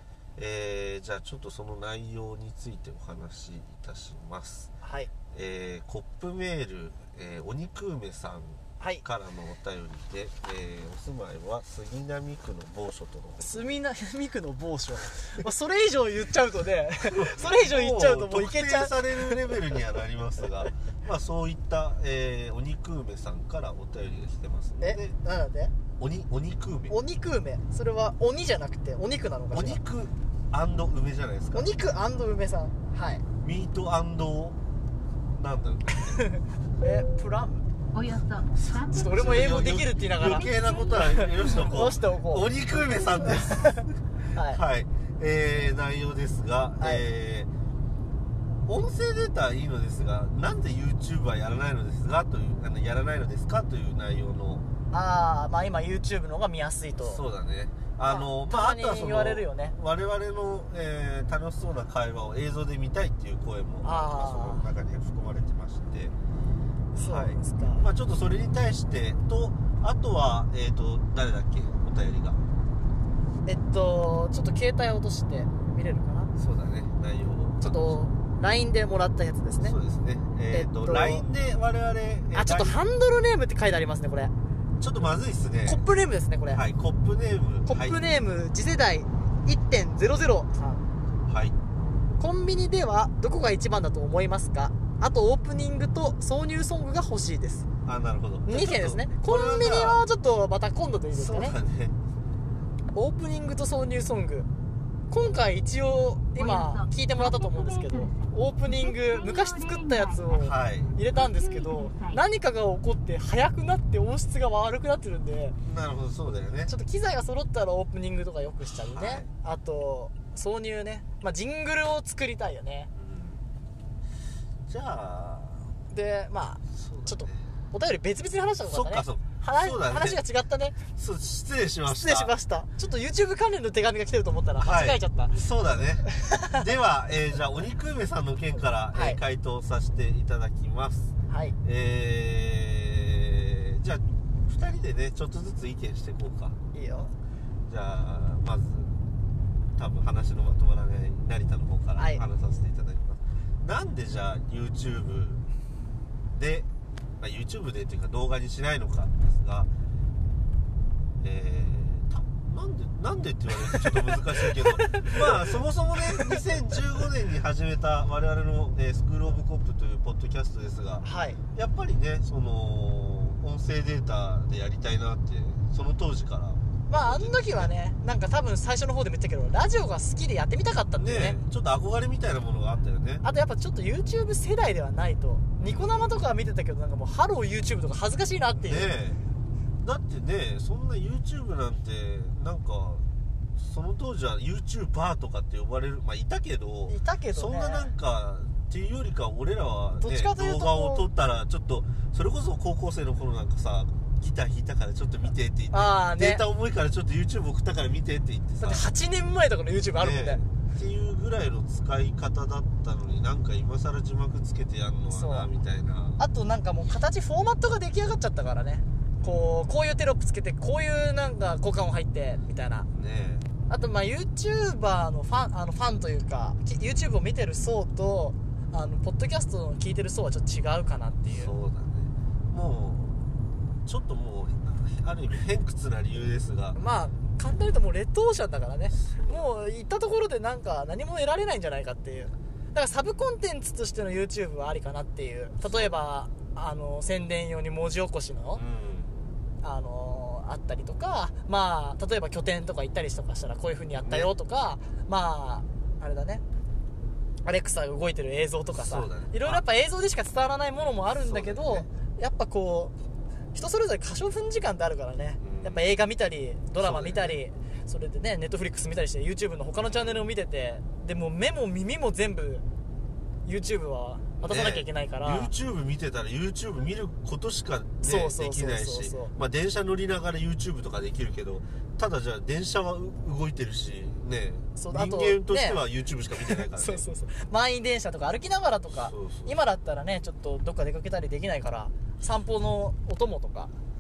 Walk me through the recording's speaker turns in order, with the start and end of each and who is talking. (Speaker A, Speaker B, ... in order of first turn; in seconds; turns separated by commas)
Speaker A: 0.4-4.7, Speaker B: 4.8-5.1, Speaker A: 5.3-13.8, Speaker B: 13.4-19.5, Speaker A: 17.0-25.1, Speaker B: 24.8-25.7, Speaker A: 26.0-27.0, Speaker B: 26.9-29.8, Speaker A: 29.5-31.7, Speaker B: 31.5-33.2, Speaker A: 33.4-34.6, Speaker A: 35.4-36.3, Speaker B: 36.2-37.6, Speaker C: 37.9-41.8, Speaker A: 38.6-47.5, Speaker B: 38.9-40.6, Speaker B: 41.1-42.5, Speaker B: 43.0-44.6, Speaker A: 48.7-54.6, Speaker B: 54.9-57.2, Speaker A: 57.0-66.1, Speaker B: 58.0-59.8, Speaker B: 63.8-64.7, Speaker A: 66.9-72.4, Speaker B: 67.0-67.9, Speaker B: 73.5-76.3, Speaker A: 76.4-78.0, Speaker B: 77.6-79.8, Speaker A: 79.6-82.8, Speaker B: 80.5-81.3, Speaker B: 82.3-84.3, Speaker A: 84.8-85.8, Speaker B: 85.7-86.6, Speaker A: 86.5-88.0, Speaker B: 87.7-90.8, Speaker A: 91.3-91.6, Speaker B: 92.2-97.7, Speaker A: 97.8-100.0, Speaker B: 98.5-101.6, Speaker A: 101.1-102.0, Speaker B: 102.9-104.5, Speaker B: 105.1-115.6, Speaker C: 106.4-110.5, Speaker A: 110.3-111.0, Speaker C: 111.0-112.2, Speaker A: 115.6-116.7, Speaker B: 116.7-122.9, Speaker A: 118.6-119.3, Speaker A: 123.0-123.4, Speaker A: 124.7-125.7, Speaker B: 125.9-130.8, Speaker A: 126.7-127.5, Speaker A: 128.7-130.2, Speaker A: 130.9-132.3, Speaker B: 131.9-135.4, Speaker A: 134.6-146.6, Speaker B: 138.9-139.2, Speaker B: 141.3-141.6, Speaker B: 146.7-147.1, Speaker A: 147.7-149.0, Speaker A: 149.8-155.5, Speaker B: 152.0-152.2, Speaker A: 156.3-159.7, Speaker A: 161.2-177.7, Speaker B: 164.7-165.1, Speaker B: 166.1-166.4, Speaker B: 171.0-171.4, Speaker B: 176.9-181.4, Speaker A: 181.0-183.2, Speaker B: 183.2-188.9, Speaker A: 185.6-186.2, Speaker A: 188.6-189.2, Speaker A: 189.8-193.1, Speaker A: 193.6-208.9, Speaker B: 196.9-197.9, Speaker B: 200.0-201.1, Speaker B: 205.7-206.4, Speaker B: 208.6-210.4, Speaker A: 210.0-216.2, Speaker B: 215.1-215.5, Speaker B: 216.2-222.9, Speaker A: 219.2-219.6, Speaker A: 222.9-223.5, Speaker B: 223.7-231.6, Speaker A: 231.3-236.8, Speaker B: 236.8-248.6, Speaker A: 238.9-239.5, Speaker A: 242.9-243.3, Speaker A: 245.6-246.0, Speaker A: 248.5-249.3, Speaker B: 249.6-256.4, Speaker A: 254.0-254.3, Speaker B: 257.4-262.9, Speaker A: 258.7-259.6, Speaker A: 261.1-261.9, Speaker B: 263.5-272.6, Speaker A: 265.4-265.9, Speaker A: 266.8-267.4, Speaker A: 269.8-270.2, Speaker B: 273.4-275.5, Speaker A: 274.4-287.1, Speaker B: 278.0-279.3, Speaker B: 284.8-285.8, Speaker B: 286.4-293.7, Speaker A: 288.9-289.6